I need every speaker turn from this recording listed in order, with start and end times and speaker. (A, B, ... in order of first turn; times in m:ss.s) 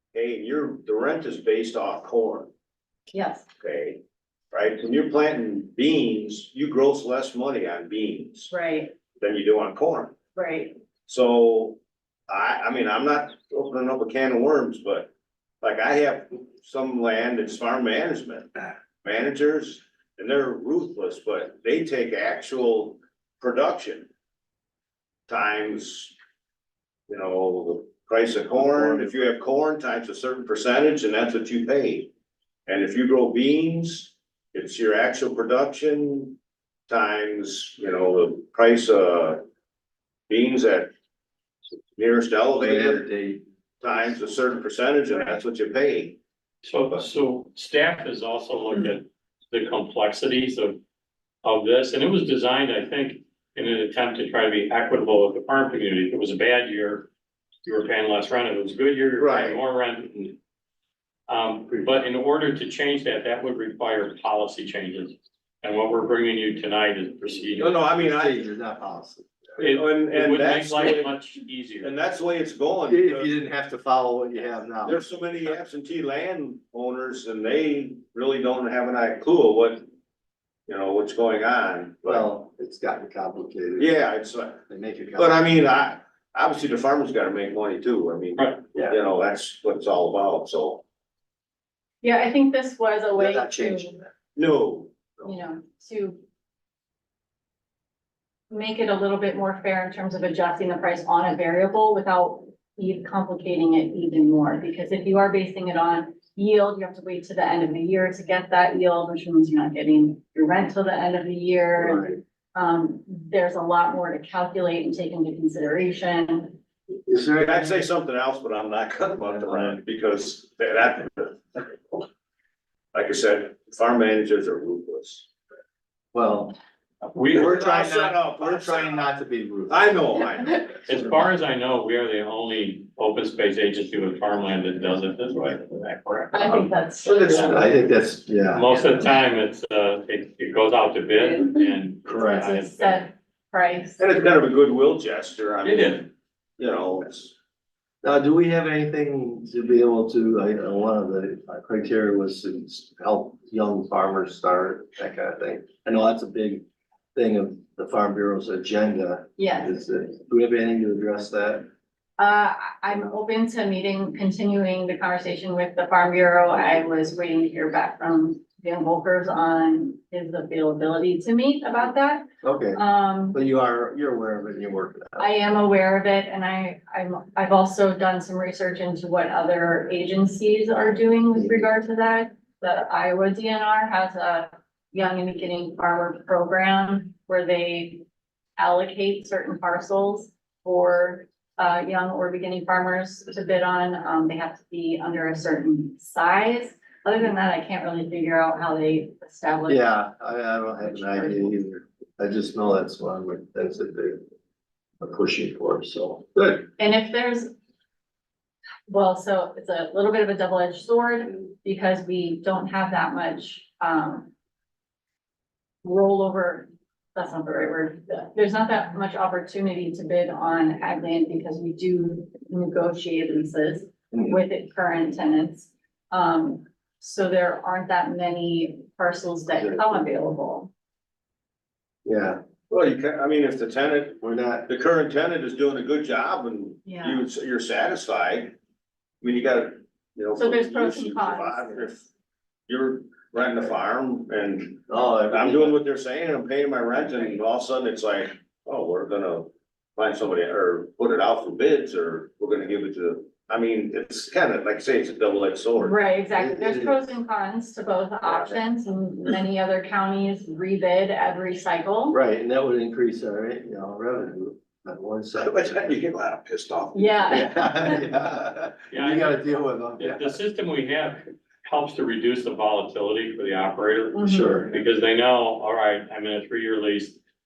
0:00.1-0:02.5 A
0:03.1-0:03.5 B
0:03.6-0:04.0 A
0:04.5-0:08.5 A
0:08.5-0:08.9 B
0:09.2-0:10.2 A
0:10.4-0:10.8 B
0:11.1-0:11.8 A
0:12.3-0:15.1 A
0:15.6-0:18.5 A
0:19.0-0:24.1 A
0:25.3-0:26.2 A
0:27.1-0:32.1 A
0:28.6-0:29.3 C
0:32.7-0:36.4 A
0:36.9-0:39.4 A
0:40.3-0:40.9 A
0:42.0-0:43.1 A
0:42.6-0:44.2 C
0:43.8-0:46.2 A
0:46.6-0:50.8 D
0:51.4-0:57.1 D
0:57.6-1:00.4 D
0:59.2-0:59.6 A
1:01.3-1:07.7 D
1:07.6-1:08.5 A
1:07.8-1:09.3 C
1:09.6-1:11.1 A
1:09.6-1:11.9 D
1:11.8-1:13.3 A
1:12.9-1:15.0 C
1:14.8-1:19.9 A
1:20.7-1:22.3 A
1:22.0-1:23.9 C
1:23.8-1:24.6 A
1:24.7-1:25.4 C
1:25.2-1:30.8 A
1:32.0-1:34.0 B
1:33.1-1:34.1 C
1:34.4-1:34.9 A
1:35.2-1:36.2 B
1:38.5-1:56.6 B
1:51.8-1:52.2 C
1:57.1-1:57.8 C
1:57.4-2:01.7 A
1:59.3-1:59.8 C
2:02.9-2:05.3 A
2:06.1-2:06.6 C
2:07.1-2:07.6 D
2:07.3-2:09.1 A
2:07.3-2:10.2 C
2:09.7-2:10.7 A
2:10.9-2:16.7 D
2:16.3-2:17.5 B
2:17.1-2:18.8 C
2:17.2-2:17.5 D
2:18.5-2:23.0 D
2:21.1-2:21.6 B
2:22.1-2:22.5 C
2:22.1-2:24.0 B
2:24.0-2:27.3 A
2:25.6-2:26.1 D
2:28.0-2:41.7 C
2:39.4-2:39.8 B
2:42.2-2:53.4 B
2:52.4-2:55.3 C
2:55.2-3:08.0 B
3:08.6-3:20.0 B
3:19.7-3:24.2 C
3:20.8-3:21.6 B
3:25.0-3:26.6 C
3:26.8-3:27.5 B
3:28.9-3:34.3 B
3:35.8-3:50.7 B
3:44.1-3:44.4 C
3:49.6-3:50.0 C
3:52.0-3:52.4 C
3:52.7-3:58.6 A
3:54.2-3:54.7 C
3:56.8-3:57.2 B
3:59.2-4:02.0 A
4:00.4-4:02.0 B
4:02.7-4:16.0 A
4:04.9-4:05.8 C
4:15.8-4:22.2 B
4:16.4-4:17.2 C
4:18.2-4:18.5 A
4:22.1-4:26.0 C
4:25.4-4:27.4 A
4:26.9-4:28.0 B
4:27.3-4:30.4 C
4:28.9-4:29.4 D
4:30.0-4:37.2 D
4:34.1-4:34.6 B
4:34.2-4:34.7 C